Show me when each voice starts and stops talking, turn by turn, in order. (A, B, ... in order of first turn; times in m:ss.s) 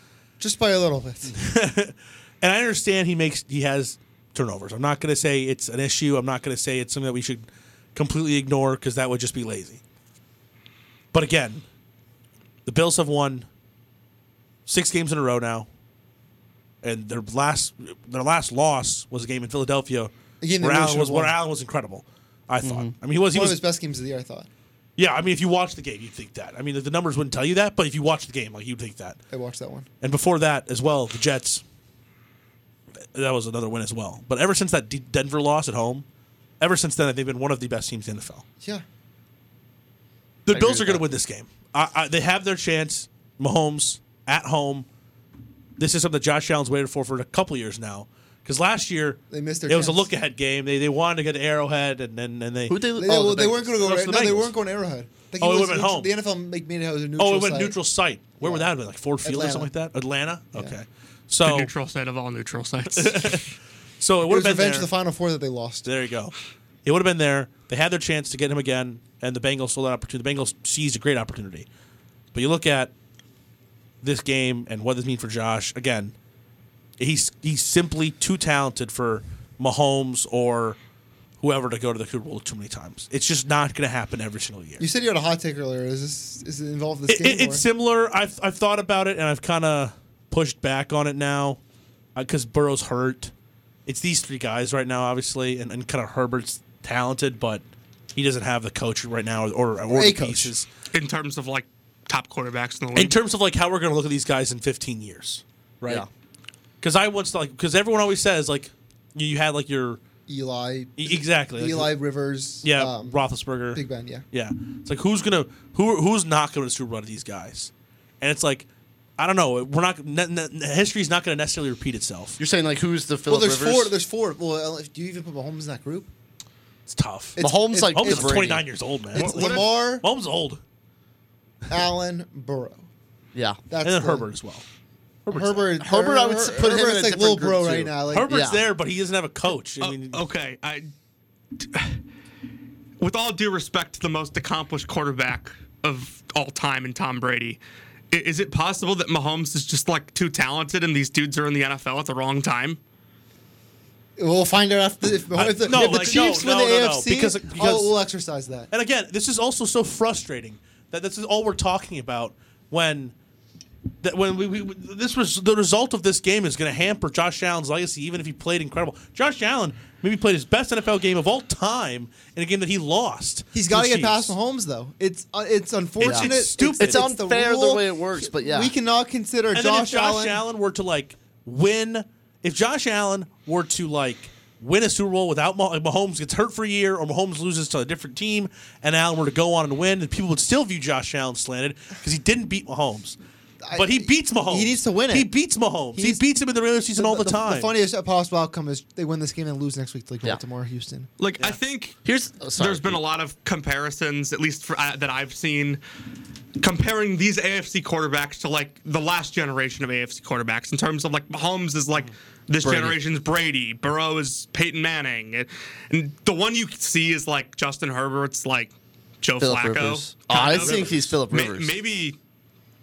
0:00.4-0:01.4 A
0:01.3-0:09.8 B
0:11.1-0:11.6 B
0:12.6-0:13.5 B
0:14.6-0:15.7 B
0:16.8-0:23.6 B
0:20.4-0:21.3 A
0:22.6-0:22.9 C
0:23.3-0:24.5 A
0:25.0-0:29.2 B
0:29.3-0:29.9 A
0:30.0-0:31.6 B
0:33.1-0:36.0 B
0:36.6-0:38.4 B
0:40.4-0:44.9 B
0:40.5-0:41.0 C
0:45.8-0:54.5 B
0:49.3-0:50.1 A
0:52.7-0:53.7 C
0:53.0-0:57.8 A
0:55.4-0:56.1 B
0:57.2-1:01.7 B
0:58.4-0:58.7 A
0:59.2-0:59.7 A
1:01.4-1:03.4 D
1:02.9-1:03.4 B
1:04.0-1:04.9 B
1:04.3-1:05.9 A
1:05.8-1:06.3 B
1:06.8-1:11.7 B
1:12.3-1:12.9 B
1:14.0-1:16.1 B
1:17.0-1:20.8 B
1:21.4-1:24.8 B
1:24.8-1:27.6 A
1:27.1-1:31.6 B
1:32.2-1:33.3 B
1:33.8-1:37.6 B
1:38.1-1:40.6 B
1:39.9-1:40.5 A
1:40.9-1:43.2 D
1:42.9-1:46.0 B
1:46.8-1:50.0 B
1:50.3-1:54.2 A
1:51.0-1:52.0 B
1:52.6-1:58.6 B
1:59.2-2:02.4 B
2:02.4-2:03.9 C
2:03.3-2:06.1 A
2:06.9-2:10.6 B
2:07.4-2:08.6 A
2:07.4-2:08.7 C
2:09.1-2:10.0 A
2:09.2-2:09.6 D
2:11.7-2:12.8 A
2:13.3-2:13.6 C
2:13.7-2:14.3 A
2:13.8-2:14.6 B
2:15.2-2:15.7 B
2:15.3-2:18.3 A
2:15.8-2:18.6 C
2:18.1-2:20.2 B
2:19.8-2:20.9 D
2:21.6-2:22.0 D
2:23.0-2:32.8 D
2:34.2-2:38.7 A
2:35.3-2:38.0 B
2:35.8-2:36.2 D
2:38.7-2:43.1 B
2:44.0-2:54.3 B
2:53.5-3:00.4 A
2:56.0-2:57.1 B
2:56.0-2:58.7 C
2:59.5-3:13.2 B
3:13.6-3:15.3 A
3:13.7-3:17.7 B
3:15.9-3:16.2 A
3:17.0-3:21.1 A
3:21.2-3:22.0 D
3:22.0-3:23.0 C
3:22.6-3:25.8 D
3:26.6-3:42.2 D
3:32.6-3:33.0 C
3:39.4-3:41.8 C
3:40.3-3:41.2 B